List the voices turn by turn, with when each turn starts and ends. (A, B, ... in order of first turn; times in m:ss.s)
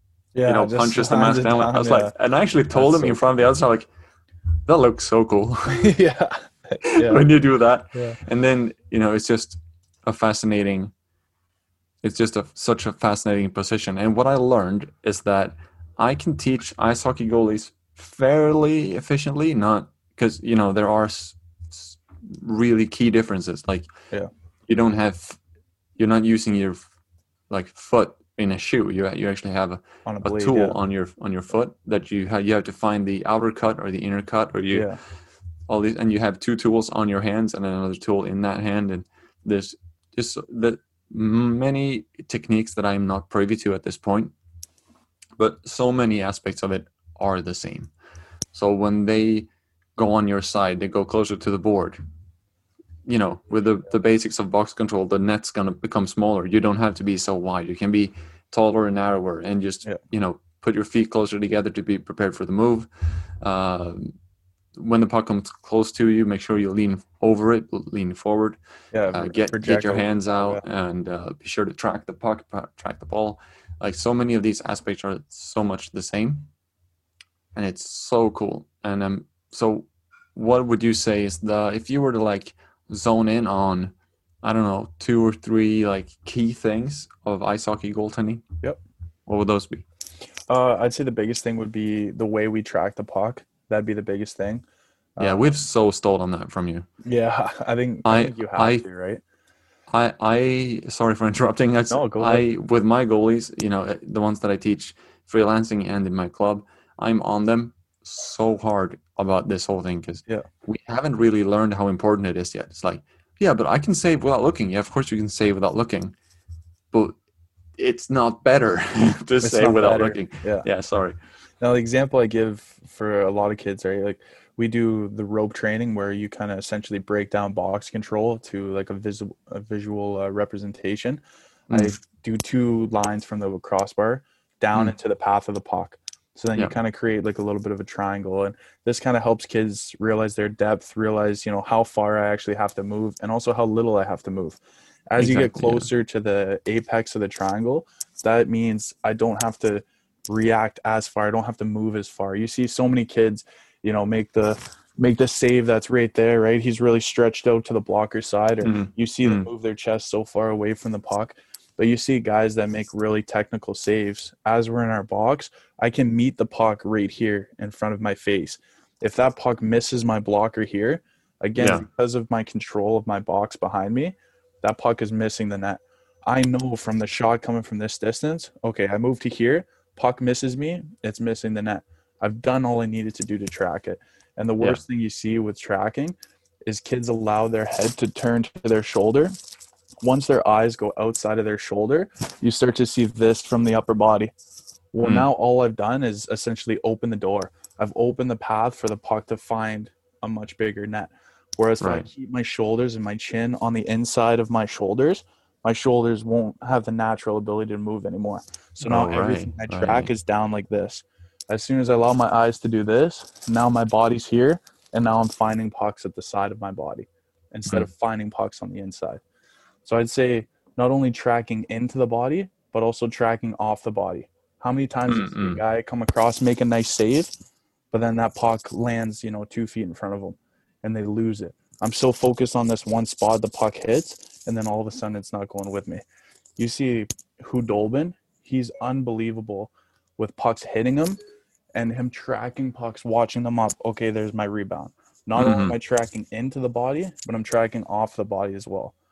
0:00.3-0:02.1 A
0:00.4-0:03.9 B
0:02.7-0:03.4 A
0:04.6-0:06.0 B
0:05.7-0:07.3 A
0:06.8-0:10.9 B
0:12.0-0:23.9 B
0:24.7-0:25.4 B
0:26.0-0:26.9 B
0:27.5-0:34.9 B
0:30.0-0:30.8 A
0:34.7-0:35.0 A
0:35.7-0:44.3 B
0:45.4-0:47.9 B
0:48.5-0:52.0 B
0:53.1-1:02.9 B
1:03.4-1:04.2 B
1:04.8-1:08.6 B
1:08.9-1:10.6 A
1:09.1-1:16.5 B
1:17.5-1:28.5 B
1:29.3-1:29.8 B
1:30.5-1:34.6 A
1:35.2-1:35.6 A
1:35.2-1:36.9 B
1:37.0-1:39.2 A
1:38.0-1:38.8 B
1:39.9-1:56.1 B
1:41.9-1:42.4 A
1:56.9-1:57.2 B
1:57.8-2:01.2 B
1:59.4-2:00.7 A
2:01.6-3:09.3 A
2:11.7-2:12.0 B
2:25.2-2:25.9 B
2:38.6-2:39.5 B
2:51.6-2:51.8 B
3:10.0-3:14.3 A
3:14.9-3:39.2 A
3:21.8-3:22.1 B
3:28.8-3:30.1 B
3:39.8-3:47.3 A
3:45.1-3:45.6 B
3:47.9-3:56.0 A
3:56.6-4:01.2 A
4:01.8-4:08.9 A
4:05.4-4:05.8 B